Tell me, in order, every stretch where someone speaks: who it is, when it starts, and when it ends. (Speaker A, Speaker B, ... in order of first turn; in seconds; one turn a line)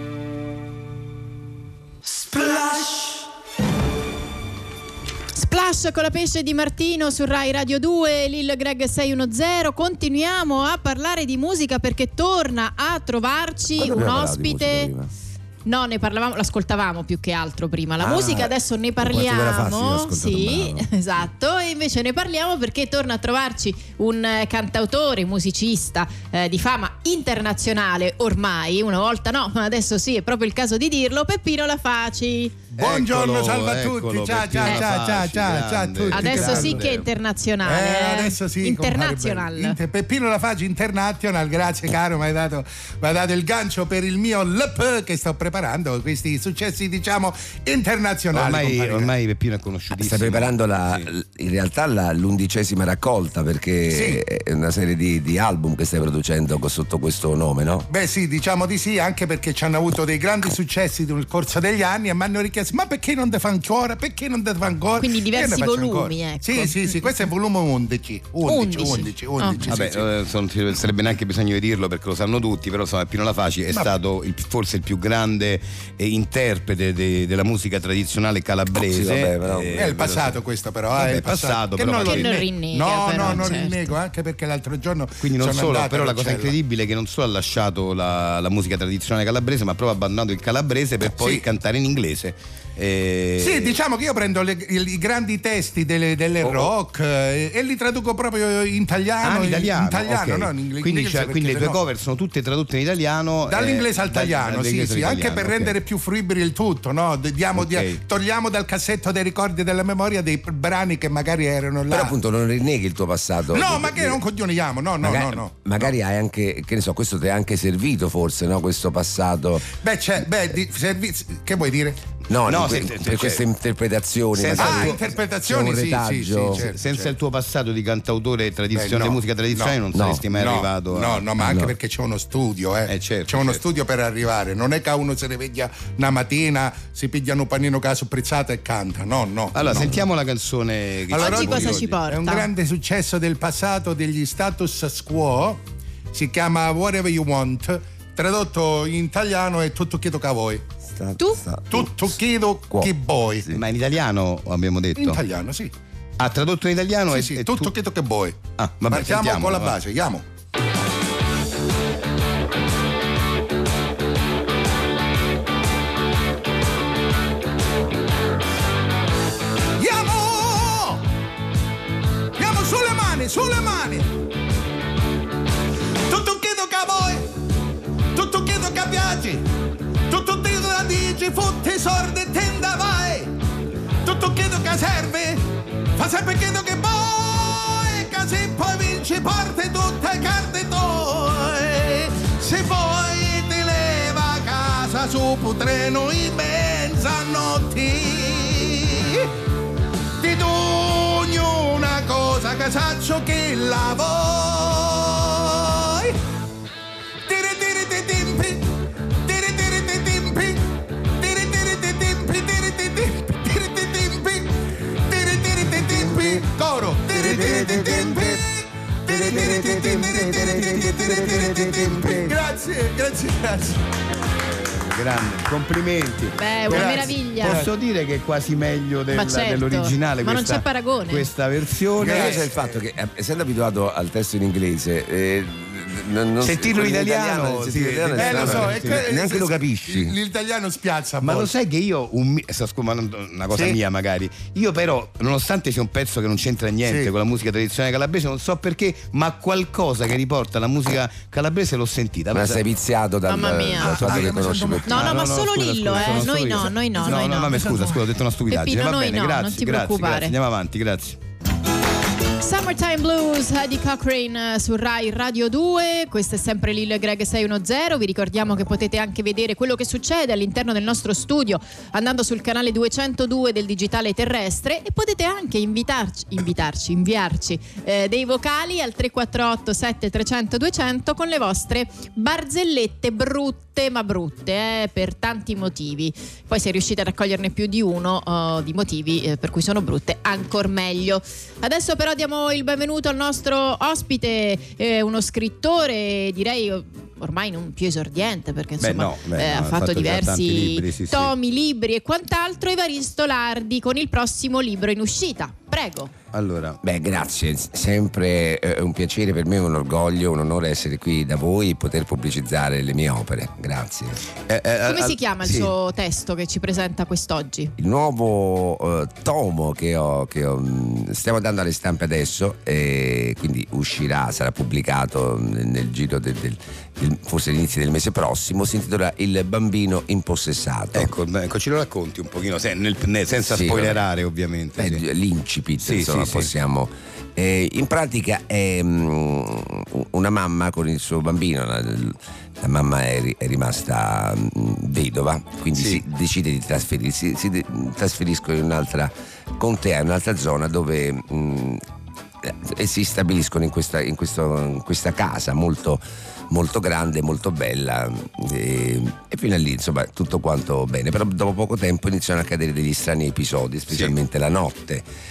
Speaker A: 2.3-2.8
Speaker B: 5.3-14.9
Speaker C: 13.8-15.1
Speaker B: 15.7-32.5
Speaker C: 18.0-18.5
Speaker A: 19.1-20.0
Speaker C: 19.1-20.9
Speaker D: 32.8-36.8
Speaker A: 32.8-37.0
Speaker B: 36.1-39.8
Speaker D: 37.6-49.1
Speaker A: 48.3-51.1
Speaker C: 49.9-57.9
Speaker D: 53.9-54.2
Speaker D: 57.9-70.1
Speaker B: 65.0-67.2
Speaker B: 68.4-69.6
Speaker A: 69.7-80.4
Speaker C: 78.7-80.0
Speaker D: 79.8-86.5
Speaker A: 80.9-82.4
Speaker B: 82.0-83.9
Speaker A: 85.2-93.8
Speaker D: 91.1-91.4
Speaker D: 93.4-101.8
Speaker A: 99.2-105.8
Speaker D: 103.5-112.2
Speaker A: 107.5-108.0
Speaker C: 111.9-114.2
Speaker D: 113.5-115.9
Speaker C: 115.0-119.6
Speaker D: 119.7-122.0
Speaker C: 122.3-126.7
Speaker A: 122.5-123.4
Speaker A: 124.3-125.1
Speaker D: 124.5-127.1
Speaker A: 126.5-131.2
Speaker D: 128.7-140.0
Speaker C: 129.9-130.2
Speaker C: 131.4-131.7
Speaker A: 132.9-133.6
Speaker A: 139.5-141.9
Speaker D: 141.1-150.6
Speaker B: 141.1-142.5
Speaker C: 150.9-152.1
Speaker D: 151.7-153.5
Speaker A: 153.5-155.2
Speaker D: 155.0-155.7
Speaker A: 156.2-157.7
Speaker D: 157.1-160.2
Speaker A: 158.6-159.8
Speaker D: 169.8-171.0
Speaker D: 172.4-174.1
Speaker D: 176.1-177.2
Speaker D: 178.1-179.4
Speaker D: 180.1-183.3
Speaker D: 184.0-185.4
Speaker D: 186.0-199.3
Speaker D: 200.2-206.2
Speaker D: 207.3-208.7
Speaker D: 209.2-214.5
Speaker D: 215.1-223.8
Speaker A: 215.9-216.4
Speaker A: 217.1-218.4
Speaker A: 219.1-222.3
Speaker A: 224.6-232.5
Speaker B: 226.3-227.6
Speaker D: 226.7-227.6
Speaker B: 229.1-231.3
Speaker D: 232.0-232.7
Speaker C: 232.0-240.1
Speaker A: 236.4-239.0
Speaker D: 238.2-241.5
Speaker A: 241.2-252.6
Speaker D: 243.5-243.8
Speaker D: 246.8-247.1
Speaker C: 252.3-255.2
Speaker B: 253.3-254.1
Speaker A: 253.9-261.2
Speaker D: 253.9-255.2
Speaker B: 254.8-257.9
Speaker D: 257.1-258.0
Speaker B: 258.5-260.3
Speaker B: 262.4-306.1
Speaker A: 298.8-301.3
Speaker A: 306.3-306.8
Speaker C: 306.8-314.2
Speaker A: 314.5-315.7
Speaker B: 314.9-317.7
Speaker C: 317.8-331.1
Speaker A: 330.9-335.0
Speaker C: 333.5-334.0
Speaker C: 334.8-351.8
Speaker A: 335.8-336.5
Speaker A: 345.8-346.0
Speaker C: 352.4-365.0